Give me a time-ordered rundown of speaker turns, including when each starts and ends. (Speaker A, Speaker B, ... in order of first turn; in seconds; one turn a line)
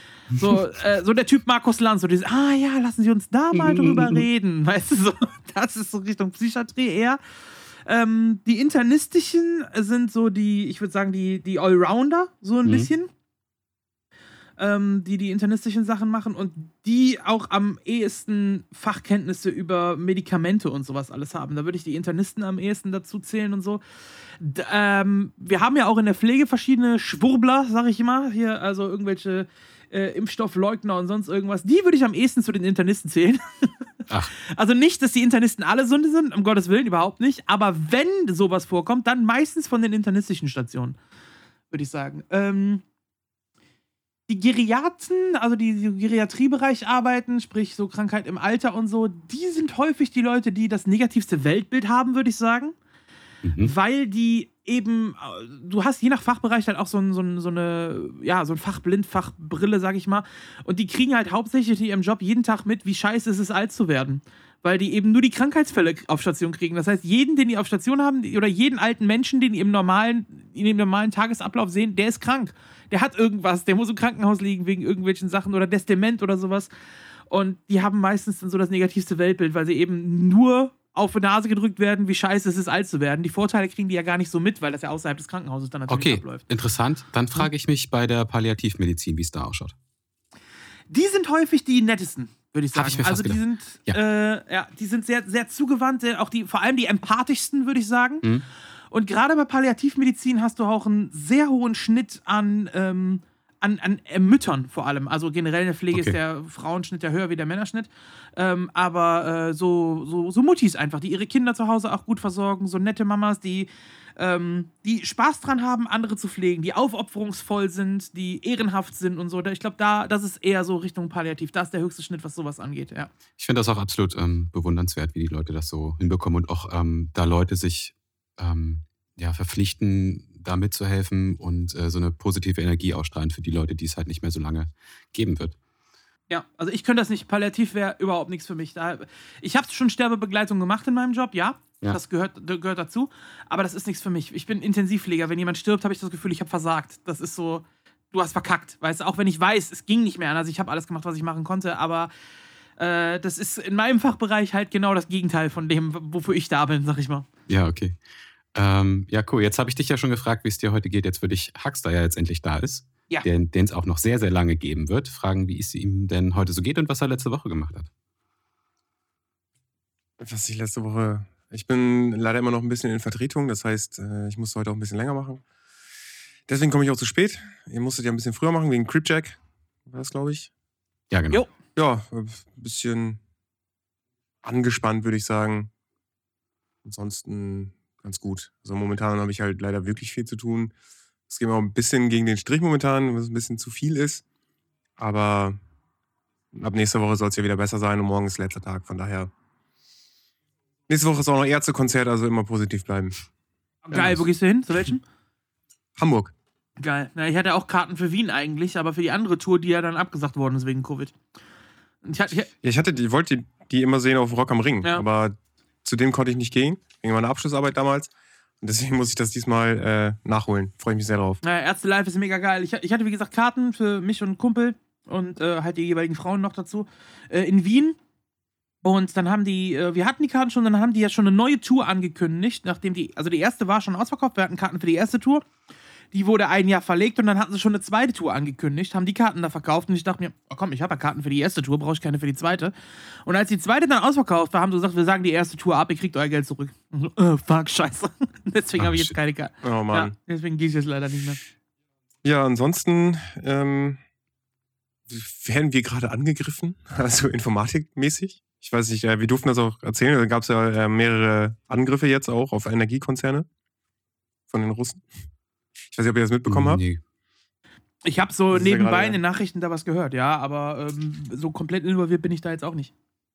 Speaker A: 0.3-7.2
Speaker B: 3.5-4.2
Speaker A: 7.8-13.1
Speaker B: 12.6-12.9
Speaker A: 14.6-23.8
Speaker A: 24.4-33.8
Speaker A: 34.4-41.0
Speaker A: 41.7-42.8
Speaker A: 44.3-52.7
Speaker B: 53.4-53.7
Speaker A: 53.6-76.7
Speaker A: 77.3-86.4
Speaker B: 85.9-89.7
Speaker A: 90.9-98.2
Speaker B: 92.7-94.0
Speaker A: 98.9-123.1
Speaker B: 123.4-135.6
Speaker A: 136.3-152.1
Speaker A: 152.8-157.2
Speaker B: 157.5-158.0
Speaker B: 158.5-167.9
Speaker C: 170.2-175.4
Speaker C: 176.5-180.5
Speaker B: 181.1-181.4
Speaker C: 181.8-183.2
Speaker C: 184.4-185.7
Speaker C: 186.8-190.7
Speaker C: 191.3-194.2
Speaker C: 195.0-195.6
Speaker C: 196.5-199.3
Speaker C: 200.9-203.1
Speaker A: 203.8-205.0
Speaker C: 206.0-206.3
Speaker A: 206.8-211.1
Speaker A: 212.0-212.5
Speaker C: 212.6-221.4
Speaker A: 221.4-228.0
Speaker A: 228.8-235.4
Speaker A: 236.1-242.7
Speaker A: 243.2-251.4
Speaker B: 248.8-249.1
Speaker C: 249.6-250.1
Speaker C: 252.2-254.0
Speaker C: 255.1-263.5
Speaker C: 264.5-265.0
Speaker C: 265.9-266.8
Speaker B: 266.5-267.0
Speaker A: 268.0-272.9
Speaker C: 268.5-269.2